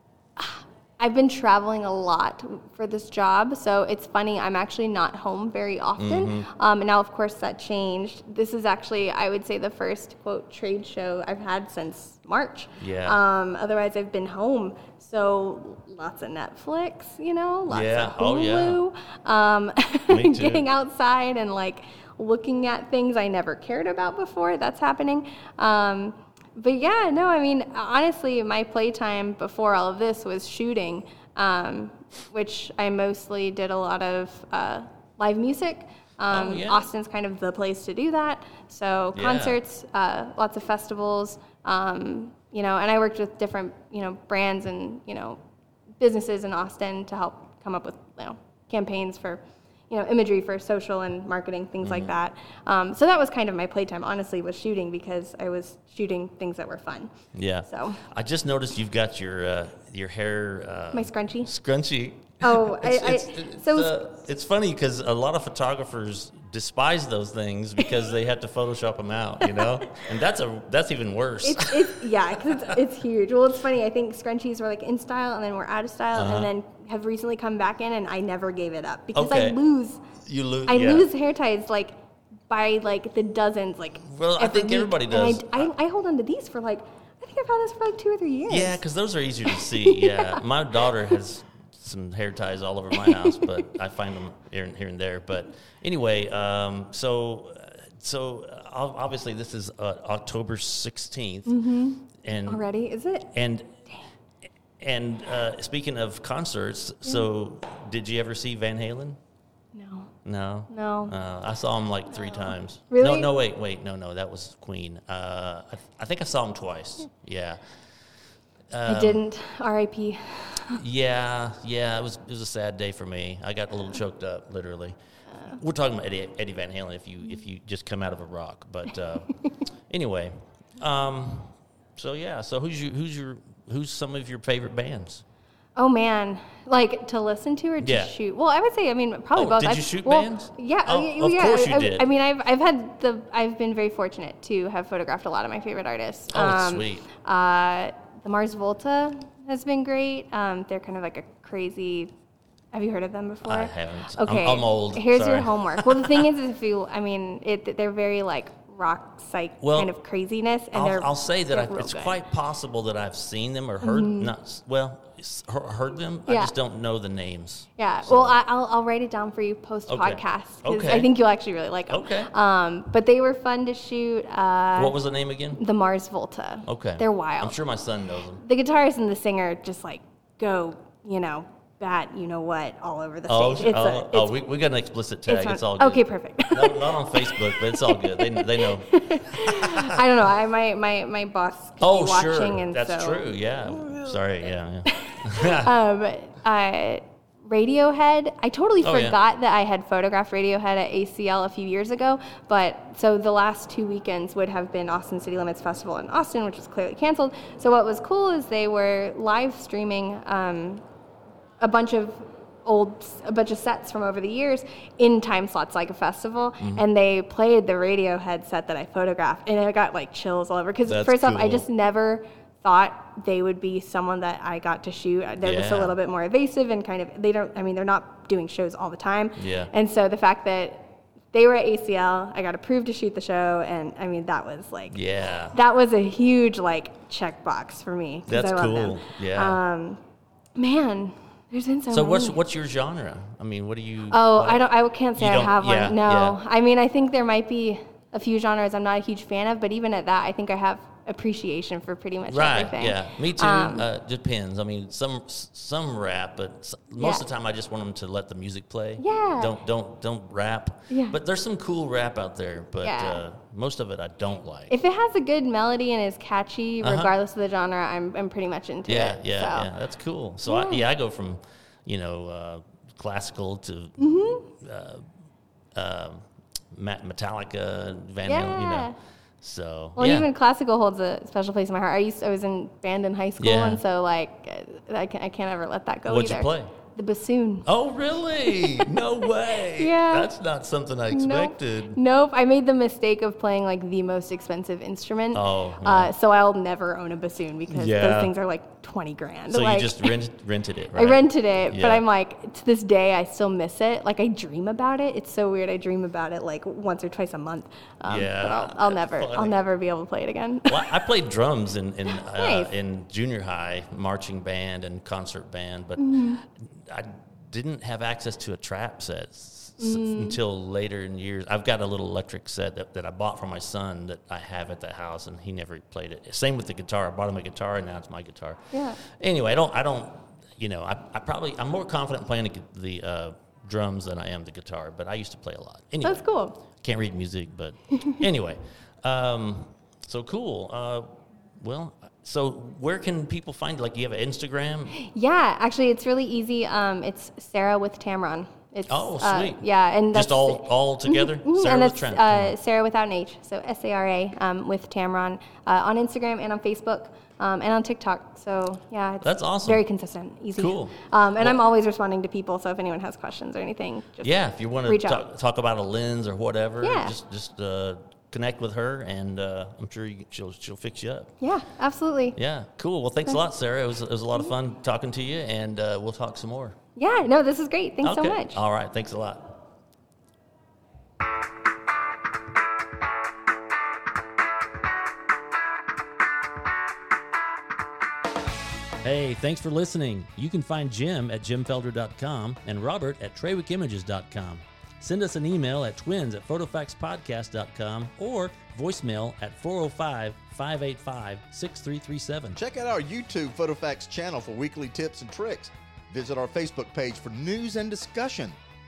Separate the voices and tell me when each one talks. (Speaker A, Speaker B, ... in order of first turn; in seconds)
Speaker A: 0.4-45.4, 46.0-57.1, 57.7-58.0, 60.9-61.5, 62.4-64.0, 69.4-69.7, 71.4-80.0, 80.7-81.9, 82.5-88.8, 89.5-90.4, 92.9-93.7, 101.5-103.3, 109.8-110.1, 110.7-111.2, 112.2-113.3, 118.9-120.8, 135.8-152.1, 152.7-162.2, 163.8-164.3, 166.3-166.5, 167.8-175.0, 175.6-177.6, 178.4-184.3, 185.3-194.2, 194.9-210.8, 211.6-235.0, 235.5-240.0, 240.6-242.4, 244.1-253.9, 257.0-257.2, 259.0-259.6, 260.9-261.2, 262.8-263.2, 264.7-269.7, 270.5-270.9, 274.0-274.5, 278.2-279.0, 280.0-287.7, 288.5-289.0, 289.6-290.4, 291.1-300.1, 300.9-311.1, 312.1-312.7, 316.0-316.4, 319.8-320.4, 328.7-329.0, 336.0-336.6, 344.9-365.2, 366.8-367.2, 371.4-372.4, 377.0-378.6
Speaker B: 6.0-6.5, 12.8-13.2, 17.7-18.8, 20.1-20.7, 36.3-36.9, 39.1-39.6, 51.8-52.1, 57.3-72.8, 76.1-76.5, 79.2-79.6, 80.2-81.1, 84.0-85.7, 88.5-101.6, 102.2-102.7, 103.3-103.8, 104.8-109.2, 110.2-117.6, 118.7-119.2, 120.7-125.0, 125.5-129.3, 129.9-135.2, 137.8-138.1, 139.3-142.1, 146.3-147.1, 153.4-156.3, 159.6-159.9, 160.7-168.4, 169.9-171.1, 171.9-172.3, 174.8-175.6, 176.7-178.4, 183.3-190.0, 191.8-195.7, 198.8-199.2, 216.6-216.8, 220.8-221.7, 225.4-225.9, 229.4-229.7, 234.9-235.6, 238.3-239.6, 241.9-244.6, 245.2-246.4, 252.3-264.7, 266.8-267.1, 268.9-275.0, 275.8-280.3, 283.4-283.8, 286.1-286.7, 287.7-292.0, 295.3-296.1, 297.7-298.3, 299.5-302.0, 308.1-309.6, 310.7-344.9, 348.9-352.6, 359.2-359.8, 360.6-361.6, 364.2-371.3, 372.4-376.8, 378.0-379.6, 389.0-402.6
Speaker C: 402.5-408.6